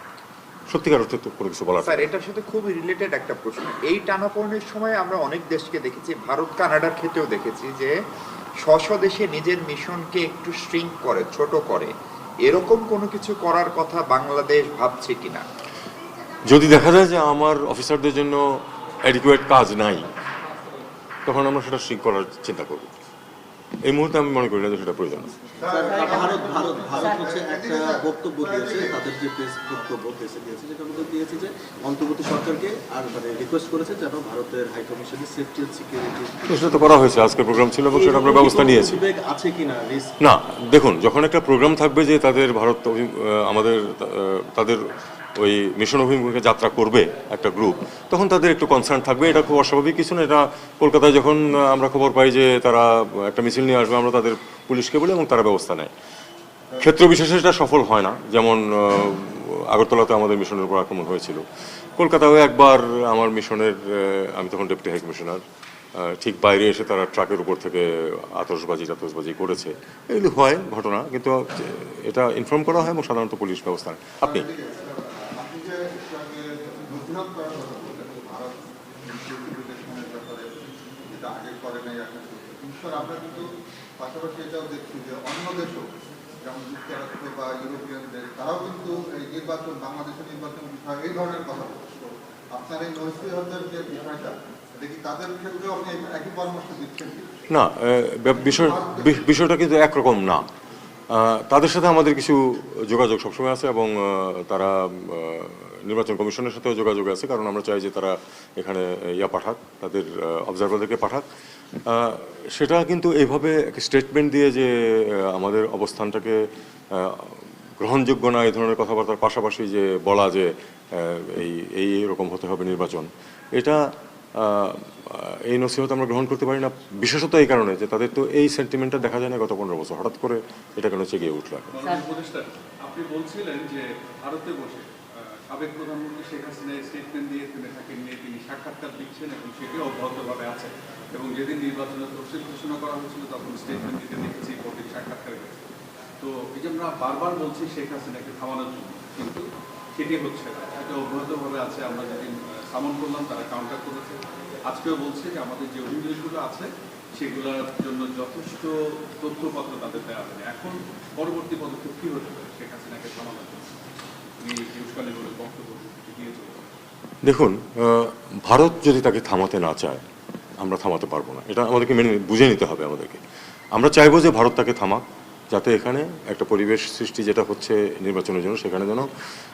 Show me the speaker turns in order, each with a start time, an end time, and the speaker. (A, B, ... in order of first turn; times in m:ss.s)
0:00.7-0:02.1 A
0:01.8-0:07.9 B
0:08.6-0:11.9 B
0:12.4-0:15.4 B
0:16.4-0:20.1 A
0:21.2-0:22.9 A
0:23.8-0:25.3 A
0:25.6-0:29.0 C
0:25.7-0:37.3 D
0:36.5-0:39.0 A
0:37.9-0:40.1 D
0:40.2-0:44.8 A
0:45.4-0:55.9 A
0:56.8-1:01.4 A
1:02.0-1:05.4 A
1:06.0-1:14.5 A
1:14.2-1:20.5 C
1:21.1-1:23.4 C
1:24.0-1:25.8 C
1:26.4-1:32.0 C
1:32.5-1:37.4 C
1:37.5-1:40.4 A
1:38.4-1:39.2 C
1:41.1-1:51.2 A
1:51.9-2:11.8 A
2:11.7-2:14.9 E
2:15.5-2:25.7 E
2:26.2-2:43.7 E
2:44.4-2:46.7 E
2:47.2-2:50.0 A
2:50.6-2:53.2 A
2:53.7-2:59.1 A